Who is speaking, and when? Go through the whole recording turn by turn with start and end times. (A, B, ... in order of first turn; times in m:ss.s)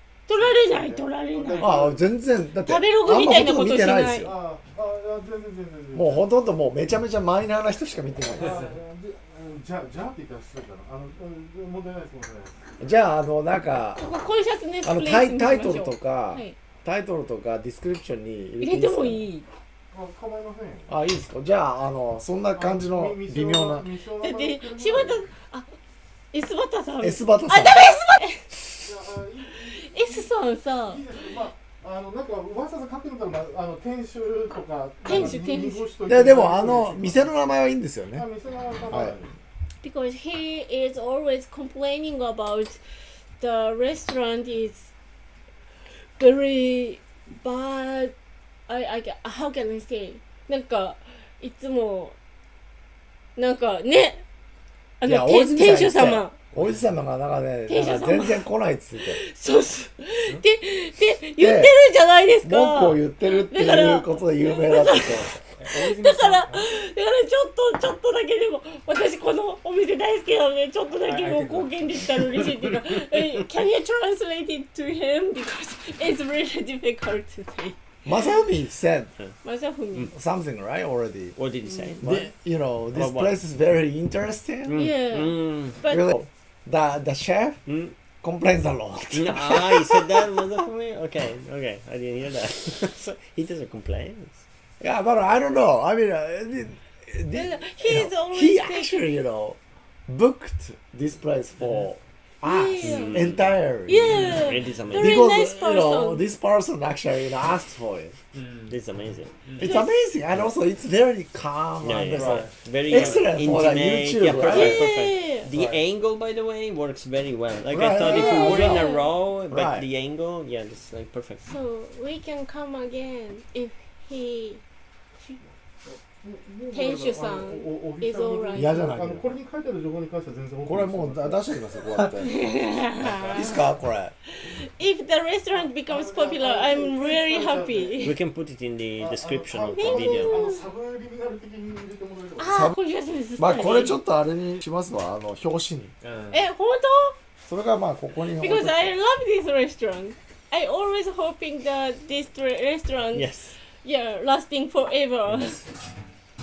0:00.3-0:01.9 A
0:00.4-0:02.0 B
0:01.6-0:04.4 C
0:02.6-0:04.3 A
0:04.3-0:06.2 B
0:06.0-0:08.6 C
0:08.4-0:12.6 B
0:12.8-0:14.1 C
0:14.0-0:16.6 A
0:14.8-0:19.3 C
0:18.6-0:19.5 A
0:19.9-0:20.9 B
0:20.9-0:23.8 C
0:22.5-0:25.2 B
0:24.2-0:25.7 A
0:26.3-0:28.4 A
0:27.0-0:27.8 C
0:28.8-0:37.3 B
0:29.6-0:31.0 A
0:35.0-0:35.8 A
0:35.1-0:35.4 C
0:36.1-0:38.3 C
0:38.2-0:39.4 B
0:38.9-0:39.2 C
0:39.8-0:42.8 A
0:43.4-0:44.9 A
0:46.2-0:48.1 A
0:48.7-0:52.2 A
0:53.4-0:54.2 A
0:55.0-0:56.3 A
0:55.0-0:59.2 C
0:57.7-1:17.8 A
1:01.4-1:01.7 C
1:02.4-1:05.3 C
1:05.6-1:06.7 D
1:11.0-1:12.1 D
1:18.0-1:19.1 C
1:19.4-1:20.1 A
1:20.1-1:21.4 C
1:21.4-1:22.3 E
1:21.7-1:22.0 A
1:22.0-1:24.9 C
1:22.9-1:23.4 E
1:24.7-1:25.8 E
1:24.8-1:26.0 A
1:25.8-1:27.6 C
1:27.7-1:27.9 E
1:28.2-1:30.2 C
1:29.1-1:34.4 E
1:34.8-1:44.3 C
1:37.3-1:39.1 A
1:41.6-1:41.9 D
1:42.4-1:43.2 A
1:42.8-1:45.2 E
1:43.9-1:46.3 A
1:44.1-1:44.4 D
1:44.9-1:48.2 C
1:48.3-1:48.7 D
1:48.7-1:49.5 E
1:49.6-1:54.9 C
1:49.6-1:50.0 A
1:51.8-2:01.4 E
1:52.2-1:53.2 D
1:54.5-1:55.5 A
1:55.5-1:55.8 C
1:57.7-1:58.9 C
1:58.0-1:59.1 A
1:59.5-1:59.9 C
2:01.4-2:04.6 A
2:05.8-2:11.5 B
2:06.7-2:08.8 A
2:08.5-2:09.3 C
2:10.6-2:12.4 C
2:12.2-2:13.6 A
2:13.3-2:14.1 C
2:14.3-2:18.2 A
2:15.5-2:18.0 B
2:18.0-2:20.3 E
2:19.0-2:22.5 B
2:19.8-2:20.7 A
2:22.4-2:24.0 A
2:22.5-2:22.8 C
2:23.4-2:25.9 C
2:26.0-2:26.4 D
2:26.3-2:27.2 A
2:27.5-2:28.9 C
2:28.2-2:35.6 A
2:33.1-2:33.5 E